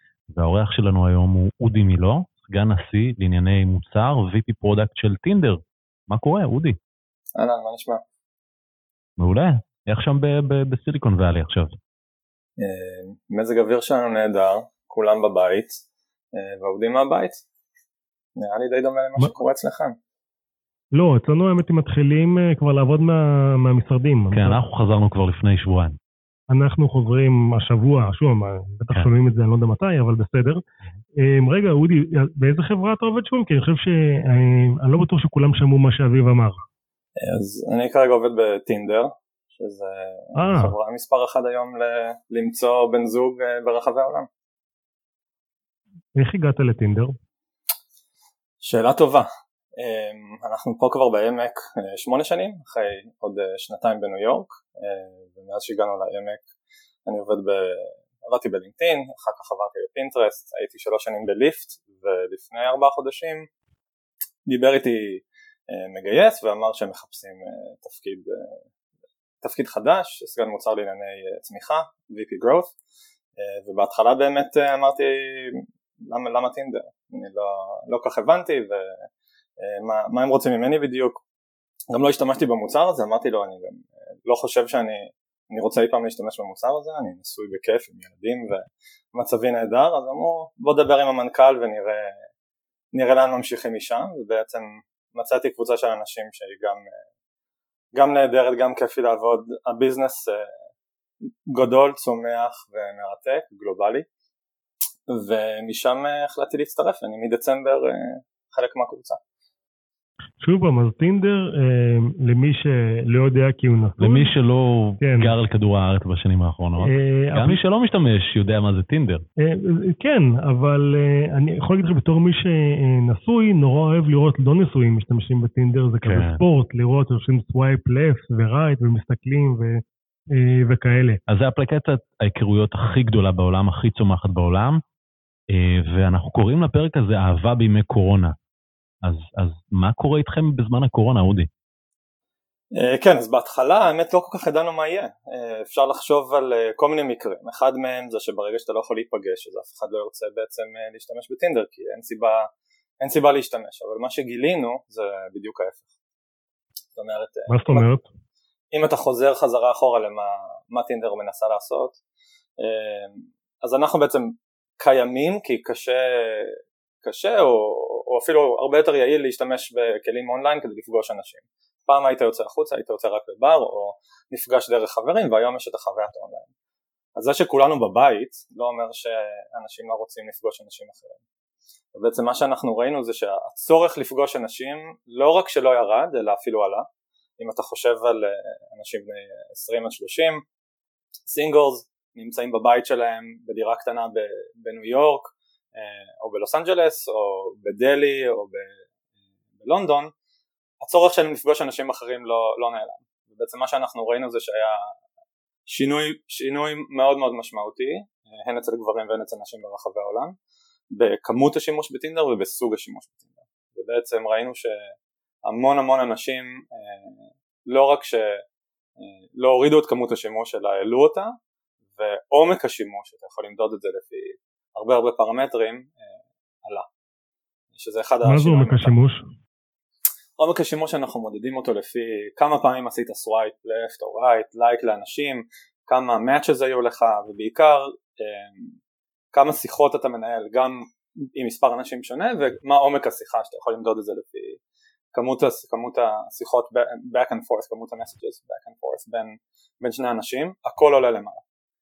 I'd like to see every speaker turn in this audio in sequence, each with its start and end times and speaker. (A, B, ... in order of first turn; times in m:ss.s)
0:00.3-0:06.8 A
0:07.4-0:08.0 B
0:09.2-0:11.8 A
0:12.6-0:15.8 B
0:16.3-0:17.4 B
0:18.4-0:20.0 B
0:20.9-0:24.6 C
0:24.3-0:26.0 A
0:26.5-0:30.6 C
0:31.2-0:36.6 C
0:37.2-0:44.3 B
0:40.4-0:40.8 C
0:46.2-0:47.1 C
0:48.6-0:56.4 B
0:57.1-1:03.5 B
1:04.5-1:08.6 B
1:09.4-1:12.7 B
1:13.4-1:19.0 B
1:19.6-1:21.2 B
1:21.9-1:32.2 B
1:32.9-1:36.9 B
1:37.9-1:40.5 B
1:41.5-1:44.1 B
1:45.1-1:49.2 B
1:50.4-1:54.3 C
1:54.0-1:59.2 A
1:55.0-1:55.3 C
1:56.8-1:57.6 C
1:59.4-2:09.8 C
2:06.0-2:06.4 A
2:10.3-2:11.2 C
2:11.3-2:14.8 A
2:15.5-2:18.4 A
2:19.0-2:21.5 A
2:22.8-2:32.5 B
2:33.0-2:35.9 B
2:37.0-2:37.9 B
2:37.5-2:38.1 C
2:38.7-2:42.0 B
2:42.6-2:56.5 B
2:57.2-3:01.2 B
3:02.0-3:06.9 B
3:07.4-3:10.4 B
3:11.3-3:18.8 B
3:19.6-3:20.1 B
3:20.8-3:24.9 B
3:25.7-3:30.4 B
3:30.9-3:34.9 B
3:35.4-3:38.4 B
3:39.0-3:41.3 B
3:42.0-3:45.9 B
3:47.8-3:49.0 B
3:48.2-3:49.2 C
3:50.4-3:58.8 B
3:59.3-4:04.6 B
4:05.1-4:11.4 B